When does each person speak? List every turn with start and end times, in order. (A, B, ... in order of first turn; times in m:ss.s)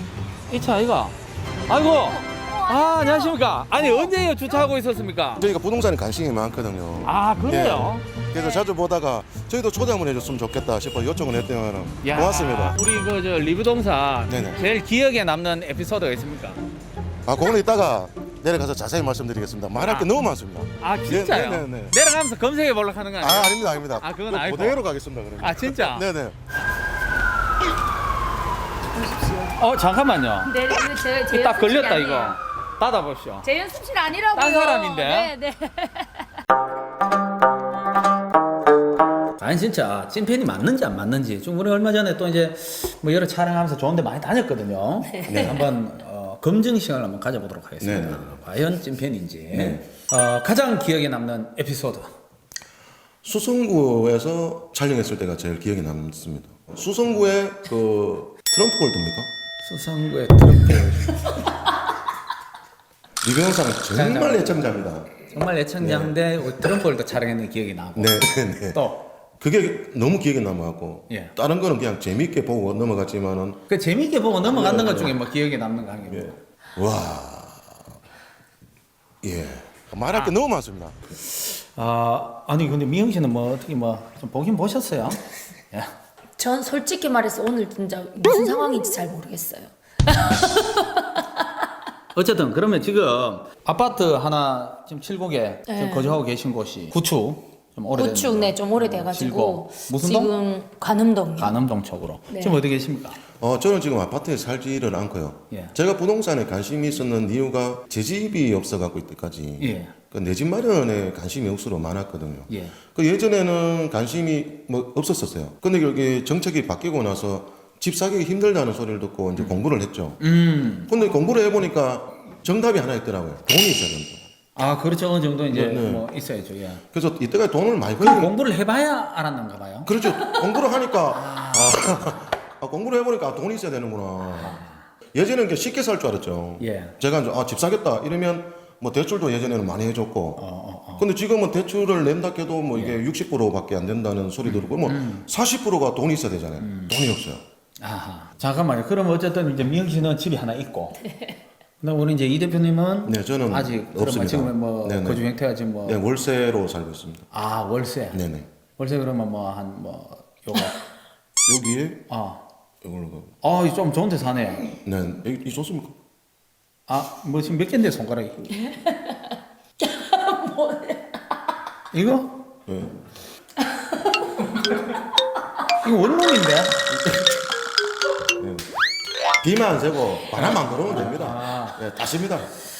0:00.5-0:01.1 A
0:01.7-0:05.4 A
0:05.4-0:12.8 B
0:07.0-0:08.0 A
0:12.0-0:16.6 A
0:14.3-0:14.6 B
0:17.2-0:22.0 B
0:19.7-0:20.1 A
0:20.8-0:24.8 A
0:23.2-0:26.4 B
0:25.4-0:26.1 A
0:28.9-0:29.6 C
0:29.6-0:30.6 A
0:30.4-0:32.4 C
0:31.3-0:33.5 A
0:33.4-0:36.2 C
0:34.3-0:35.3 A
0:39.4-0:52.1 A
0:45.1-0:45.6 C
0:45.3-0:45.6 B
0:47.8-0:48.4 B
0:49.5-0:49.8 B
0:53.2-0:59.3 B
0:59.6-1:01.4 A
1:03.2-1:05.3 B
1:03.9-1:04.7 A
1:05.3-1:09.1 A
1:05.8-1:06.2 B
1:08.0-1:08.8 B
1:09.4-1:13.6 B
1:13.7-1:16.3 A
1:14.4-1:15.2 B
1:16.0-1:17.8 B
1:19.2-1:21.0 B
1:21.4-1:25.9 A
1:26.4-1:31.4 C
1:32.1-1:40.3 A
1:35.7-1:36.2 C
1:38.0-1:41.6 C
1:41.4-1:43.2 A
1:42.3-1:42.6 C
1:43.4-2:00.2 B
1:49.6-1:49.9 A
1:52.5-1:52.8 A
1:59.4-1:59.6 A
2:00.2-2:00.9 A
2:00.9-2:04.2 B
2:04.6-2:06.8 A
2:05.5-2:06.0 B
2:06.9-2:08.3 B
2:08.0-2:09.9 A
2:09.8-2:14.6 B
2:11.1-2:12.2 A
2:14.3-2:14.8 A
2:15.1-2:20.4 B
2:16.6-2:17.0 A
2:20.4-2:21.0 A
2:21.0-2:27.4 B
2:22.7-2:23.0 A
2:24.4-2:25.3 A
2:26.6-2:27.0 A
2:27.8-2:31.0 A
2:31.1-2:31.4 C
2:31.8-2:36.0 A
2:33.0-2:35.3 B
2:35.8-2:37.3 B
2:37.3-2:38.2 A
2:38.1-2:38.5 B
2:38.8-2:40.8 A
2:41.4-2:42.0 B
2:42.1-2:42.4 A
2:42.8-2:43.3 B
2:43.4-2:44.7 A
2:44.8-2:45.9 B
2:46.9-2:48.6 A
2:48.6-2:51.2 C
2:51.9-2:52.4 A
2:52.7-2:53.0 B
2:53.7-2:54.8 C
2:55.8-2:56.8 A
2:56.9-2:57.3 B
2:58.4-2:58.7 B
2:59.4-3:02.5 B
3:00.3-3:01.8 A